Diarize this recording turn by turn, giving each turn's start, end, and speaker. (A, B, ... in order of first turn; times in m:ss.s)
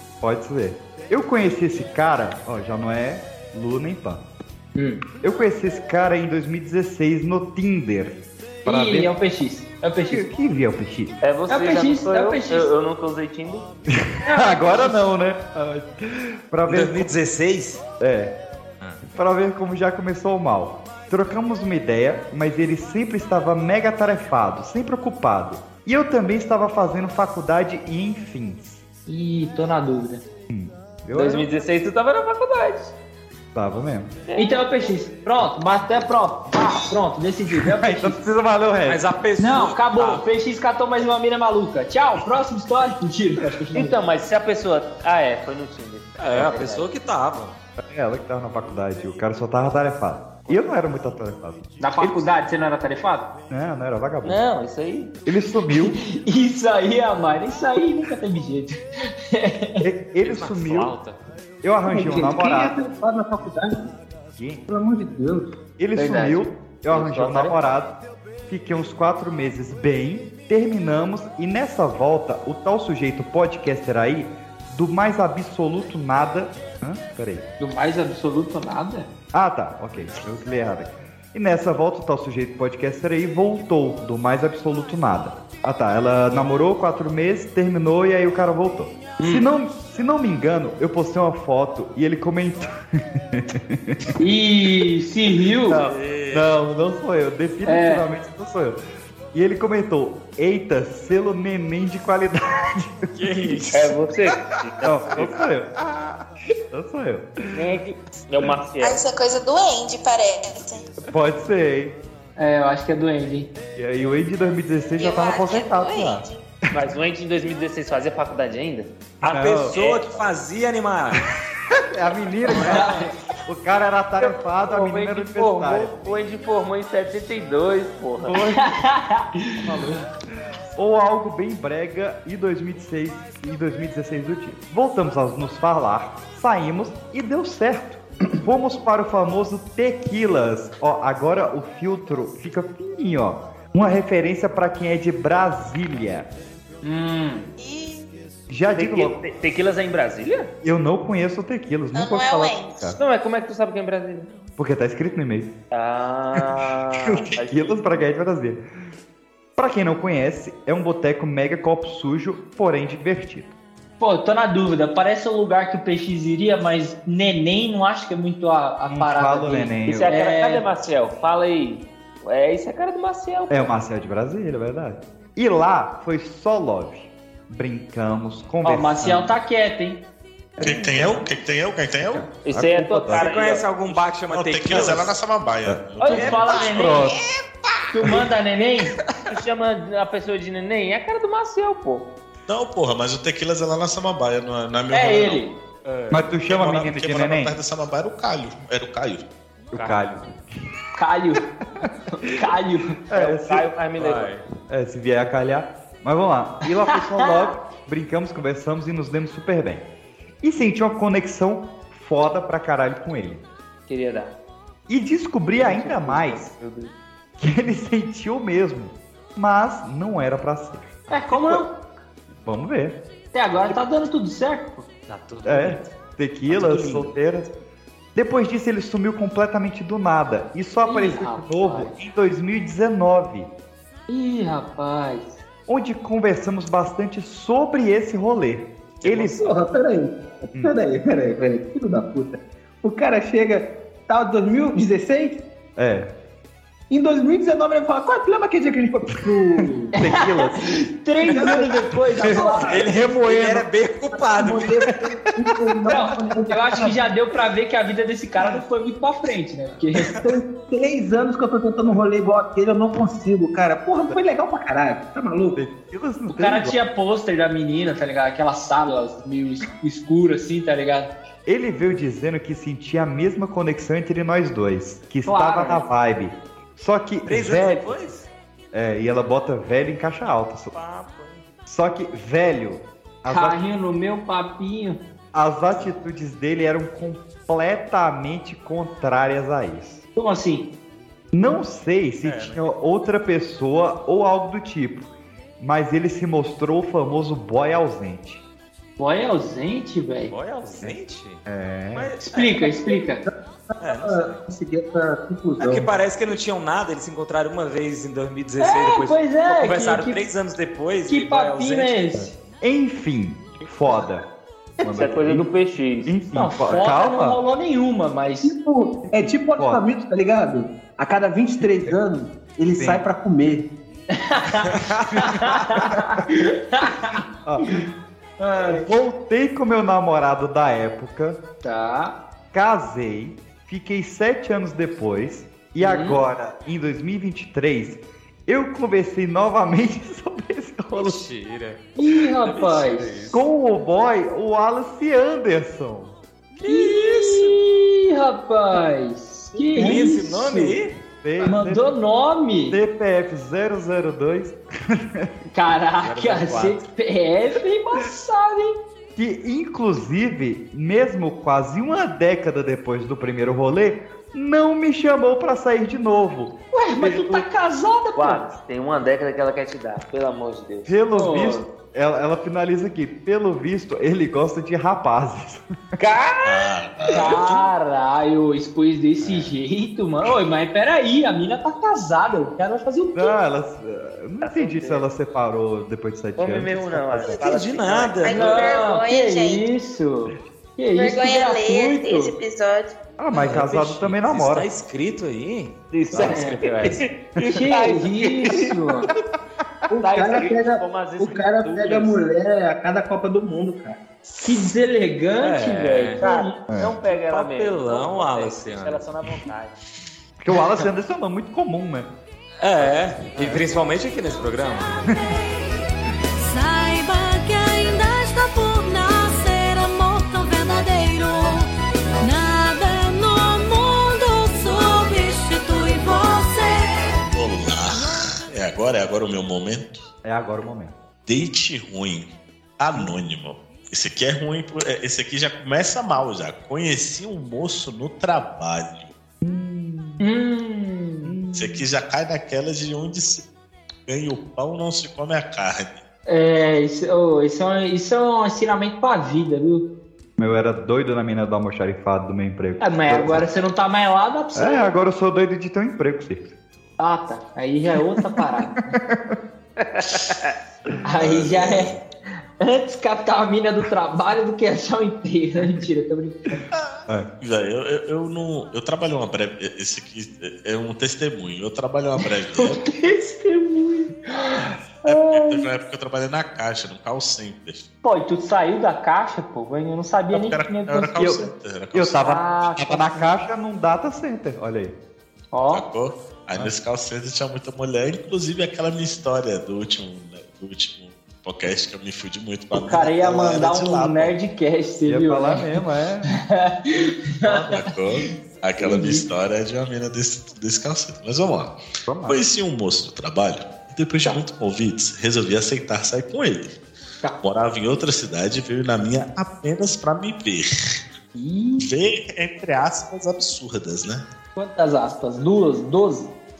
0:00.2-0:04.2 A
0:04.8-0:05.0 B
0:05.2-0:09.1 A
0:08.6-0:10.2 B
0:10.1-0:11.1 A
0:11.2-0:13.7 C
0:11.5-0:12.7 B
0:14.1-0:17.1 A
0:14.2-0:14.9 B
0:16.7-0:17.8 D
0:18.0-0:18.3 A
0:19.1-0:28.8 A
0:29.1-0:30.2 B
0:30.5-0:31.5 A
0:31.1-0:32.9 C
0:33.5-0:34.1 A
0:34.3-0:34.7 C
0:34.4-0:38.2 B
0:37.5-0:39.0 A
0:38.9-0:40.3 D
0:39.4-0:43.9 B
0:43.7-0:46.9 C
0:46.2-0:47.6 D
0:47.8-0:52.2 A
0:51.8-0:53.2 B
0:53.5-0:54.4 A
0:54.2-0:55.1 C
0:55.2-0:56.0 A
0:55.8-0:59.8 B
0:59.8-1:00.9 A
1:00.2-1:01.1 D
1:01.6-1:02.8 A
1:01.9-1:03.9 E
1:04.3-1:04.6 A
1:04.7-1:05.6 E
1:05.8-1:07.9 A
1:06.0-1:07.5 C
1:08.5-1:17.4 A
1:17.6-1:19.1 B
1:19.3-1:34.0 A
1:34.2-1:35.8 B
1:35.8-1:36.4 F
1:36.3-1:38.8 A
1:37.6-1:38.0 B
1:39.3-1:43.6 A
1:43.1-1:43.9 D
1:43.7-1:45.5 C
1:44.8-1:47.8 A
1:47.5-1:49.0 C
1:48.8-1:50.8 G
1:51.1-1:52.0 A
1:52.4-1:53.5 B
1:53.7-1:56.2 A
1:55.0-1:56.4 G
1:56.7-1:58.9 C
1:59.2-2:01.2 D
1:59.2-1:59.8 A
1:59.7-2:00.3 C
2:01.9-2:06.0 A
2:02.5-2:03.1 B
2:04.2-2:08.4 C
2:08.2-2:08.6 A
2:08.5-2:09.5 B
2:09.6-2:10.0 A
2:10.8-2:26.3 A
2:26.8-2:27.4 B
2:27.6-2:28.0 G
2:28.5-2:29.2 A
2:28.7-2:30.5 C
2:30.6-2:33.0 A
2:31.9-2:32.8 G
2:32.9-2:34.3 C
2:34.6-2:35.5 A
2:35.7-2:38.1 C
2:36.4-2:38.6 A
2:39.6-2:43.5 A
2:44.0-2:50.6 B
2:48.9-2:50.1 A
2:49.8-2:53.7 C
2:53.5-2:59.4 A
2:58.6-3:00.0 B
3:00.6-3:01.3 A
3:00.6-3:02.3 F
3:02.0-3:03.3 A
3:02.4-3:03.7 C
3:03.1-3:05.1 D
3:03.9-3:06.6 F
3:05.6-3:07.2 A
3:06.0-3:07.1 B
3:06.1-3:06.6 D
3:07.9-3:08.9 B
3:09.3-3:12.1 C
3:12.5-3:15.4 F
3:14.9-3:15.5 B
3:15.8-3:16.2 D
3:16.1-3:17.5 A
3:16.5-3:19.2 F
3:19.7-3:20.2 A
3:19.7-3:20.2 D
3:21.0-3:21.4 B
3:22.2-3:23.0 B
3:23.1-3:23.7 A
3:23.1-3:24.3 C
3:24.0-3:24.4 D
3:24.7-3:29.8 A
3:27.2-3:27.5 B
3:30.4-3:33.4 A
3:33.9-3:34.3 C
3:34.9-3:36.5 A
3:35.6-3:36.9 C
3:37.4-3:41.6 A
3:41.1-3:41.7 B
3:42.4-3:43.0 A
3:43.3-3:44.8 B
3:45.1-3:45.9 D
3:45.4-3:47.5 A
3:46.5-3:47.1 D
3:48.1-3:53.5 A
3:50.8-3:51.9 B
3:54.1-3:55.4 B
3:55.7-3:59.4 A
3:59.0-3:59.6 D
3:59.4-4:05.4 E
4:05.8-4:06.1 A
4:06.9-4:09.9 E
4:09.9-4:10.6 A
4:10.0-4:12.8 B
4:11.3-4:12.8 E
4:11.3-4:13.6 A
4:12.3-4:14.9 D
4:14.2-4:17.0 E
4:15.9-4:20.1 B
4:20.2-4:25.6 E
4:25.5-4:26.8 A
4:26.3-4:31.1 B
4:31.4-4:38.0 A
4:35.2-4:35.8 B
4:37.2-4:38.3 D
4:38.7-4:40.7 A
4:40.7-4:41.4 D
4:41.6-4:43.6 A
4:43.3-4:45.0 B
4:45.3-4:50.0 A
4:50.2-4:50.7 B
4:51.3-4:55.1 A
4:52.2-4:52.6 D
4:55.6-4:58.4 A
4:59.0-5:00.3 B
5:00.3-5:02.7 D
5:00.8-5:02.1 A
5:02.3-5:03.2 B
5:03.8-5:04.4 D
5:03.8-5:05.9 E
5:05.6-5:11.9 D
5:08.6-5:10.2 B
5:11.1-5:12.3 B
5:12.2-5:14.2 A
5:14.8-5:15.5 A
5:14.9-5:16.1 C
5:16.0-5:17.4 A
5:16.3-5:18.5 B
5:18.4-5:23.7 E
5:19.1-5:19.8 A
5:22.8-5:23.0 A
5:24.1-5:27.2 B
5:24.7-5:25.0 D
5:25.3-5:26.2 A
5:27.4-5:27.8 A
5:28.4-5:28.8 B
5:28.6-5:31.4 A
5:31.6-5:32.2 B
5:32.5-5:41.2 A
5:35.8-5:36.2 B
5:40.9-5:43.4 D
5:42.0-5:43.1 B
5:43.3-5:46.1 A
5:46.6-5:47.5 D
5:46.7-5:50.8 B
5:49.7-5:50.9 D
5:49.8-5:50.0 A
5:51.2-5:51.9 A
5:51.4-5:52.8 B
5:52.7-5:55.3 A
5:55.5-5:58.8 B
5:56.0-5:56.8 D
5:59.2-6:07.4 A
6:06.7-6:08.5 B
6:08.2-6:10.9 C
6:10.8-6:15.6 A
6:11.2-6:11.6 B
6:16.0-6:16.6 C
6:16.4-6:17.6 F
6:17.1-6:23.3 B
6:19.2-6:19.5 A
6:23.1-6:27.4 A
6:24.4-6:25.1 C
6:26.4-6:28.7 C
6:27.2-6:28.7 D
6:28.2-6:29.6 G
6:28.3-6:32.3 B
6:30.9-6:32.9 G
6:33.2-6:34.7 A
6:33.3-6:37.0 D
6:35.9-6:39.1 C
6:36.2-6:36.5 B
6:37.4-6:39.1 B
6:39.9-6:44.0 E
6:40.0-6:42.2 C
6:44.3-6:46.6 B
6:45.4-6:46.2 D
6:45.9-6:49.7 C
6:46.7-6:47.0 A
6:47.1-6:49.1 D
6:50.4-6:52.1 A
6:52.6-6:54.9 D
6:55.2-6:55.8 H
6:56.4-7:01.7 H
7:02.2-7:07.3 H
7:07.3-7:10.0 F
7:10.2-7:10.9 A
7:11.2-7:19.1 F
7:19.4-7:20.3 A
7:20.2-7:21.4 B
7:21.2-7:21.8 A
7:21.5-7:23.4 F
7:24.0-7:26.0 F
7:26.3-7:29.8 B
7:30.4-7:33.5 A
7:32.8-7:34.9 B
7:34.5-7:36.5 A
7:37.0-7:38.7 B
7:38.2-7:39.4 A
7:41.0-7:41.9 B
7:41.2-7:42.0 F
7:42.6-7:46.6 B
7:46.7-7:52.8 F
7:52.6-7:55.6 B
7:55.0-7:57.8 F
7:58.0-8:01.5 B
8:00.3-8:02.2 F
8:01.2-8:04.9 A
8:02.2-8:03.3 B
8:05.5-8:05.8 B
8:05.7-8:14.3 F
8:12.7-8:15.7 B
8:15.1-8:16.3 A
8:16.3-8:17.8 B
8:17.5-8:21.7 F
8:18.8-8:19.3 B
8:22.0-8:22.4 A
8:22.3-8:26.7 F
8:27.4-8:30.7 F
8:31.4-8:31.9 B
8:31.8-8:34.2 F
8:34.6-8:36.3 B